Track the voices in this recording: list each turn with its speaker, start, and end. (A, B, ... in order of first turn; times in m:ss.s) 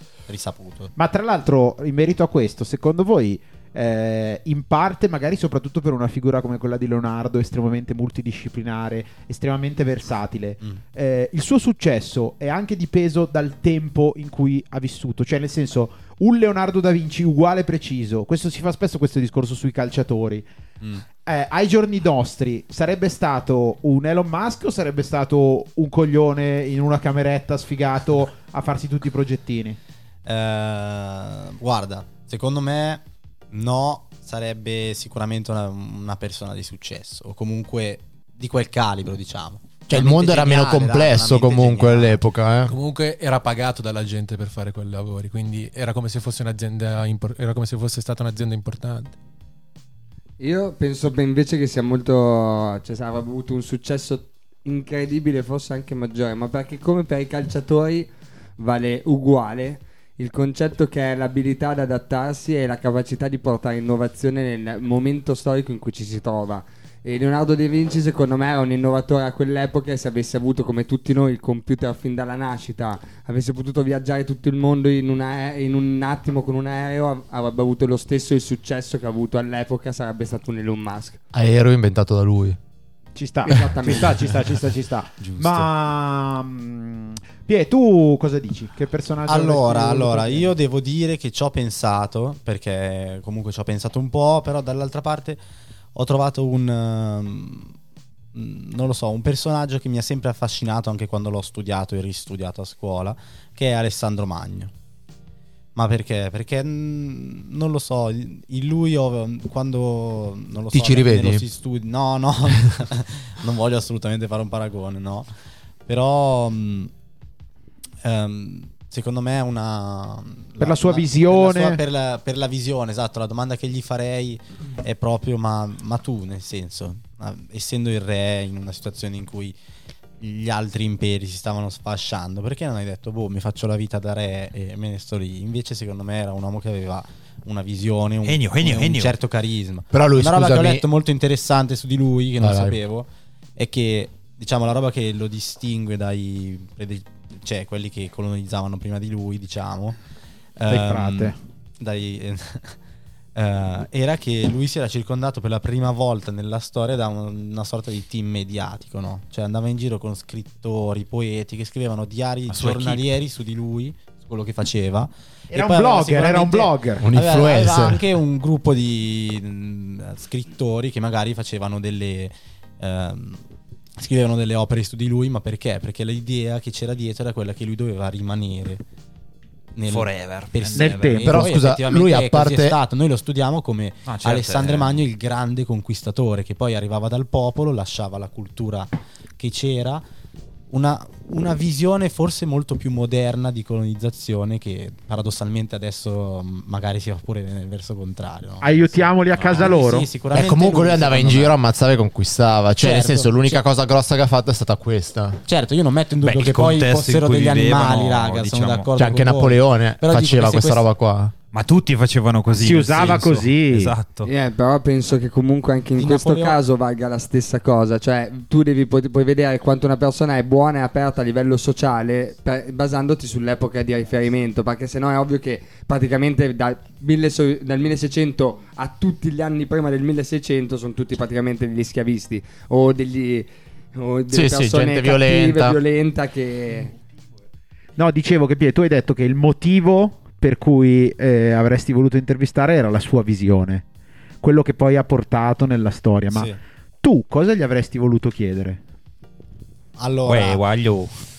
0:00.3-0:00.9 A
0:01.0-0:20.5 B
0:21.2-0:29.8 B
0:30.2-0:42.2 A
0:39.9-0:42.8 C
0:42.6-0:49.1 D
0:50.4-1:21.2 E
1:21.3-1:22.6 C
1:23.1-1:30.5 B
1:23.4-1:24.2 E
1:29.2-1:35.4 A
1:35.9-1:37.8 A
1:38.3-1:44.7 A
1:45.7-1:55.3 A
1:50.7-1:51.4 C
1:55.8-1:56.9 A
1:58.0-2:09.5 A
2:00.6-2:01.8 B
2:10.2-2:30.0 A
2:18.2-2:19.2 F
2:19.9-2:20.8 C
2:22.4-2:22.8 C
2:30.6-2:32.8 A
2:30.7-2:31.4 B
2:33.3-2:53.4 A
2:42.5-2:43.0 F
2:45.5-2:47.1 B
2:47.0-2:48.0 C
2:54.0-2:58.8 A
2:59.7-3:10.0 A
2:59.9-3:01.2 F
3:00.7-3:01.4 B
3:01.2-3:02.8 C
3:04.0-3:05.0 F
3:10.7-3:21.6 A
3:18.6-3:20.1 B
3:20.3-3:25.4 C
3:22.8-3:23.6 A
3:25.4-3:30.8 A
3:26.2-3:28.9 F
3:29.0-3:31.3 C
3:31.5-3:34.3 F
3:32.5-3:33.9 B
3:34.2-3:56.9 E
3:36.0-3:36.6 A
3:54.3-3:55.8 C
3:58.0-4:03.8 B
4:04.4-4:06.5 B
4:06.3-4:06.6 A
4:07.0-4:08.8 B
4:10.0-4:10.6 A
4:10.2-4:11.1 F